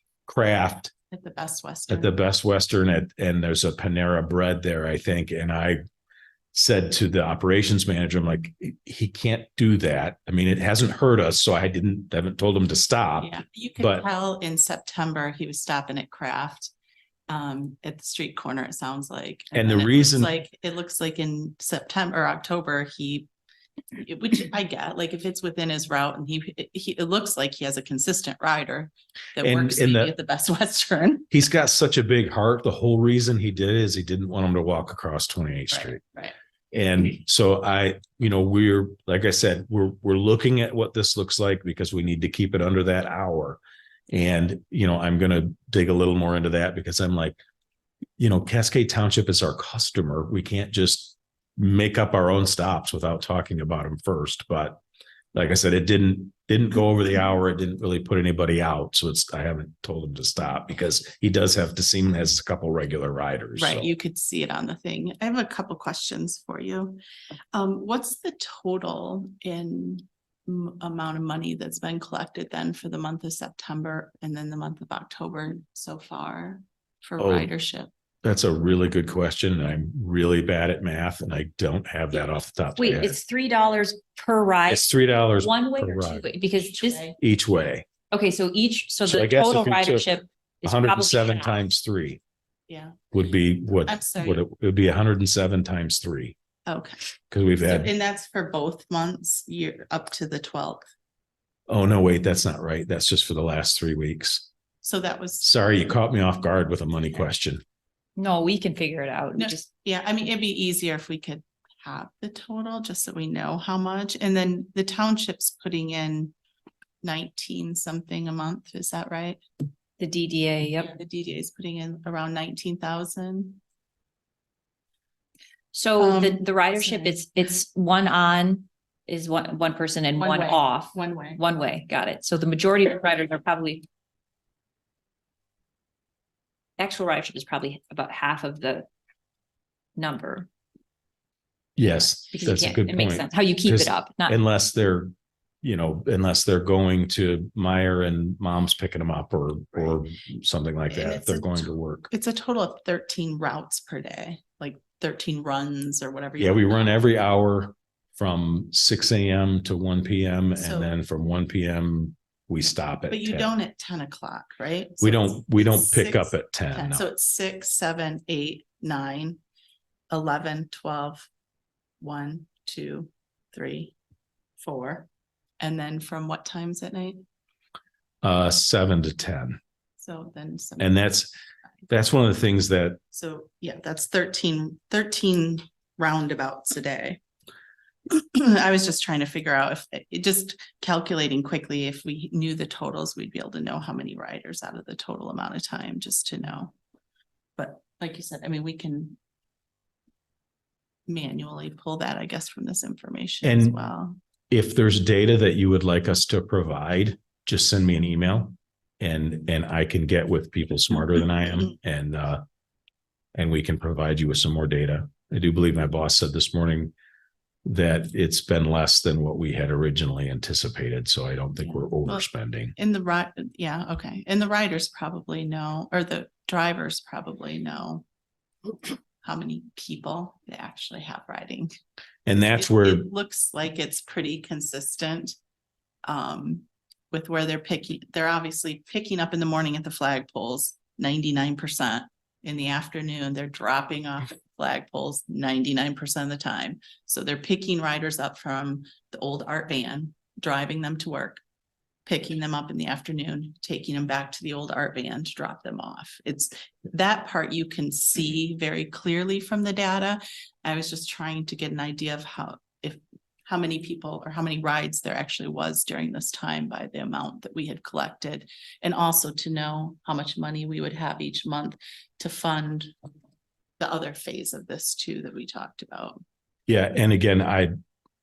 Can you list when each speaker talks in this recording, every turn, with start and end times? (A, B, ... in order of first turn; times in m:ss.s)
0:00.3-0:00.9 A
0:01.1-0:02.1 B
0:01.9-0:05.8 A
0:06.5-0:14.0 A
0:13.2-0:16.7 B
0:17.3-0:23.3 B
0:19.5-0:20.3 A
0:24.0-0:31.3 B
0:29.4-0:30.1 A
0:31.3-0:36.0 A
0:35.7-0:36.4 B
0:36.7-0:43.6 A
0:44.1-0:47.4 A
0:48.2-0:54.8 A
0:55.3-1:03.9 A
1:03.6-1:07.0 B
1:07.5-1:17.9 B
1:17.2-1:17.5 A
1:18.2-1:23.2 A
1:22.8-1:27.1 C
1:24.7-1:26.2 A
1:26.5-1:27.2 B
1:27.2-1:27.9 A
1:28.1-1:31.6 C
1:29.0-1:30.1 A
1:30.6-1:32.2 A
1:32.7-1:33.0 B
1:33.1-1:36.4 A
1:33.8-1:34.4 B
1:36.7-1:37.0 B
1:37.3-1:37.9 A
1:37.6-1:40.9 B
1:41.7-1:44.5 A
1:44.8-1:45.4 B
1:45.4-1:47.6 A
1:48.2-1:49.6 C
1:49.4-1:56.3 B
1:57.0-1:59.4 B
2:00.0-2:00.9 C
2:00.8-2:03.6 B
2:05.7-2:13.9 C
2:06.0-2:07.2 B
2:10.2-2:11.4 B
2:16.8-2:18.9 C
2:20.0-2:20.5 C
2:21.8-2:32.1 A
2:22.3-2:24.4 C
2:30.9-2:37.0 B
2:36.4-2:43.5 A
2:40.6-2:40.9 B
2:43.1-2:49.4 B
2:45.0-2:47.1 A
2:50.1-2:51.3 B
2:52.0-2:54.0 B
2:54.6-2:55.1 B
2:55.6-2:57.2 B
2:58.2-2:59.6 A
3:00.0-3:01.0 B
3:00.8-3:01.3 A
3:01.9-3:03.0 A
3:03.1-3:07.2 B
3:08.1-3:16.7 B
3:17.6-3:19.2 B
3:21.1-3:24.2 B
3:23.4-3:23.8 A
3:24.5-3:32.4 A
3:33.4-3:36.9 A
3:37.6-3:42.8 A
3:42.0-3:48.0 B
3:49.2-3:51.7 B
3:52.3-3:53.1 A
3:52.4-3:55.4 B
3:56.0-4:11.4 B
4:12.1-4:32.9 B
4:33.8-4:36.2 B
4:36.7-4:37.7 A